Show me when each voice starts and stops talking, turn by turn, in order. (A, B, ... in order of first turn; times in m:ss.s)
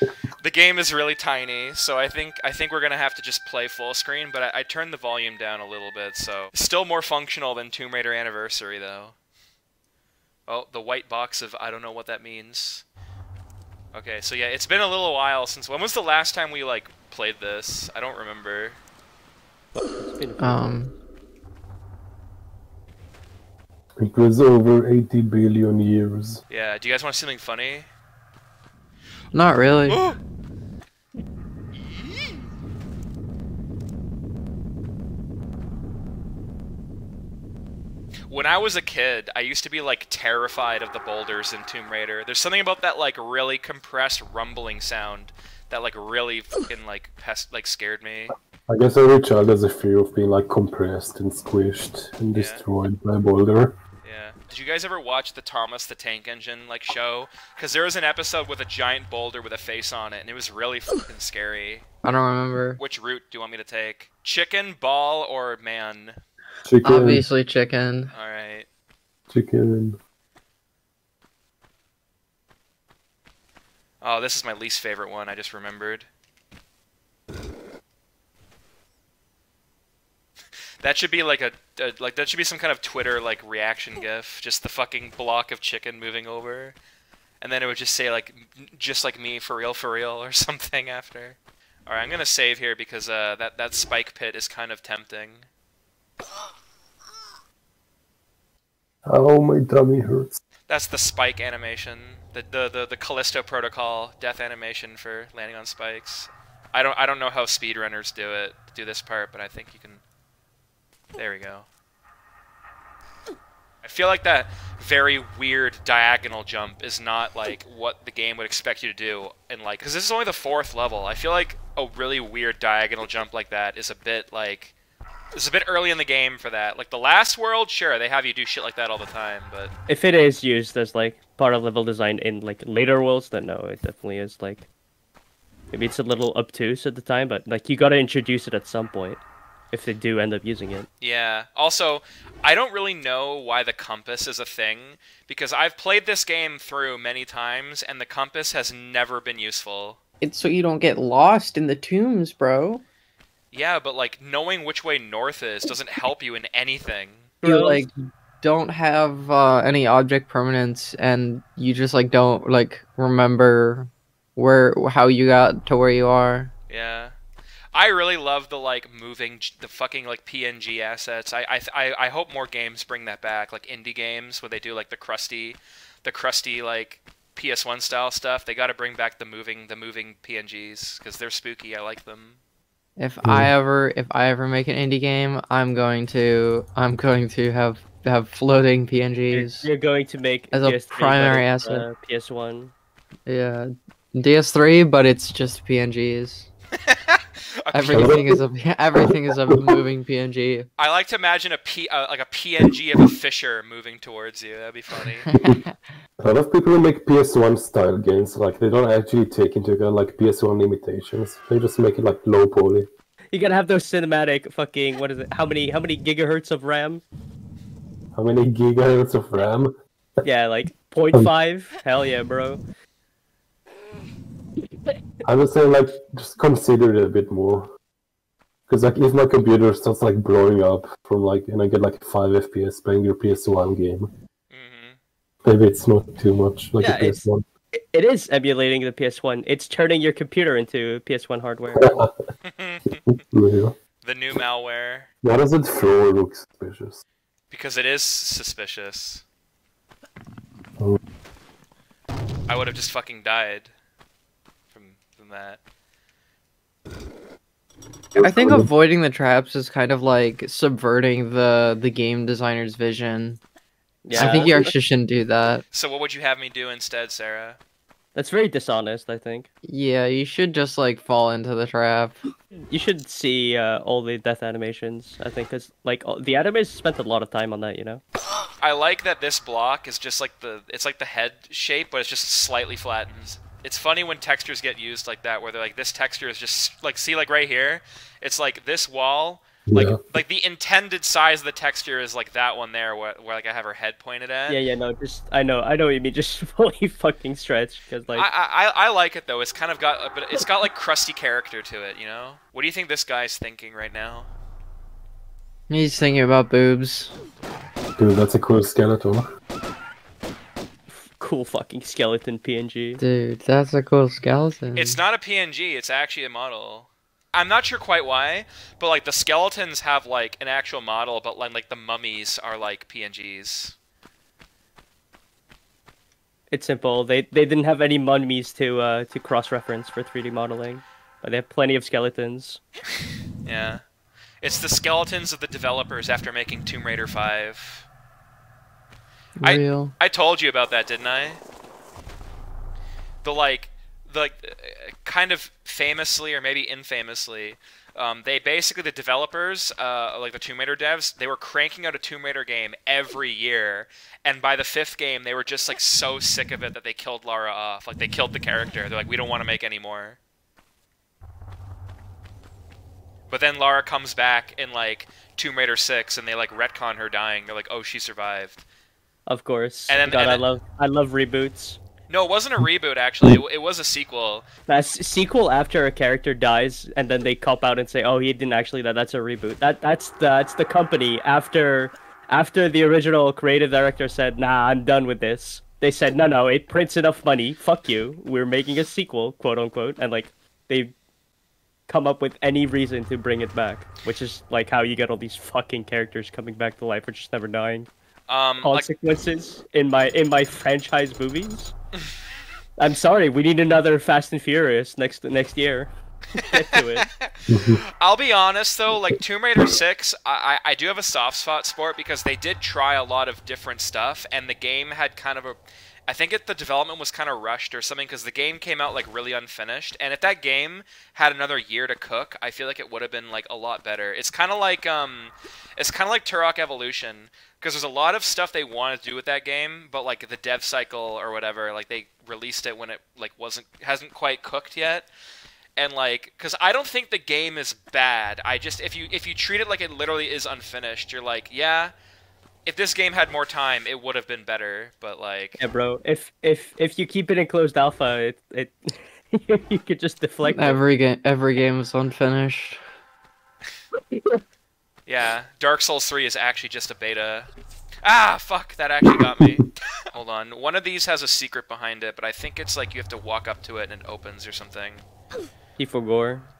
0:00.4-0:09.1 A
0:10.5-0:12.8 A
0:13.9-0:18.8 A
0:19.8-0:20.8 B
0:20.4-0:20.9 C
0:24.0-0:26.4 D
0:26.5-0:27.9 A
0:29.3-0:30.0 C
0:29.9-0:30.2 A
0:31.8-0:32.4 A
0:38.3-0:48.3 A
0:48.7-0:53.8 D
0:52.3-0:52.6 A
0:54.0-1:01.9 A
1:02.0-1:02.8 C
1:02.8-1:06.2 A
1:06.6-1:07.2 D
1:06.8-1:08.1 C
1:08.1-1:08.7 A
1:09.3-1:10.0 D
1:14.0-1:16.1 A
1:20.8-1:26.8 A
1:27.4-1:35.5 A
1:39.1-1:40.4 D
1:40.7-1:50.0 A
1:51.2-1:51.7 A
1:53.8-2:04.7 A
2:05.3-2:09.7 A
2:09.9-2:14.7 B
2:15.7-2:19.2 B
2:19.7-2:20.9 B
2:21.0-2:30.0 A
2:30.2-2:32.8 C
2:33.5-2:37.3 A
2:37.4-2:37.9 B
2:37.4-2:46.5 C
2:46.7-2:47.2 A
2:47.7-3:02.4 A
3:03.0-3:09.7 C
3:03.2-3:03.5 D
3:09.3-3:12.7 B
3:10.5-3:11.8 C
3:13.2-3:16.5 C
3:16.9-3:18.2 A
3:17.7-3:20.7 C
3:17.9-3:18.4 D
3:20.8-3:25.3 A
3:25.3-3:25.6 D
3:25.4-3:25.8 C
3:26.2-3:32.9 D
3:33.3-3:37.0 B
3:38.1-3:39.8 D
3:40.2-3:42.6 B
3:45.2-3:47.7 D
3:48.7-3:54.1 D
3:54.5-3:55.0 A
3:55.5-3:57.4 D
3:56.8-4:01.9 B
4:01.8-4:02.1 D
4:02.4-4:03.0 A
4:03.1-4:03.8 D
4:04.0-4:05.1 A
4:05.2-4:07.0 D
4:07.5-4:09.2 A
4:12.5-4:13.7 A
4:14.7-4:15.6 A
4:18.1-4:18.7 D
4:18.2-4:23.4 C
4:24.0-4:24.7 B
4:24.2-4:24.5 A
4:24.2-4:25.6 C
4:25.7-4:27.6 A
4:28.1-4:29.5 B
4:29.6-4:32.2 C
4:32.6-4:38.0 B
4:38.6-4:54.6 A
4:49.7-4:50.0 D
4:54.5-4:58.3 B
4:58.1-5:04.3 A
5:05.7-5:07.1 C
5:08.0-5:09.3 D
5:10.9-5:13.0 B
5:13.0-5:15.0 C
5:14.8-5:23.7 A
5:26.5-5:32.6 B
5:33.4-5:33.8 A
5:34.4-5:37.9 A
5:39.4-5:39.9 C
5:39.4-5:41.4 A
5:43.2-6:00.2 A
6:03.3-6:08.6 A
6:09.3-6:11.8 B
6:09.9-6:10.4 A
6:12.1-6:14.5 A
6:14.7-6:30.9 B
6:31.9-6:37.9 B
6:38.3-6:38.9 A
6:38.6-6:41.7 B
6:42.8-6:47.1 B
6:47.2-7:15.1 A
6:47.5-6:47.8 D
7:15.8-7:21.9 A
7:22.6-7:25.6 A
7:25.6-7:30.8 B
7:30.4-7:32.8 C
7:34.1-7:34.4 B
7:35.0-7:37.5 A
7:38.0-7:45.0 A
7:45.8-7:46.5 B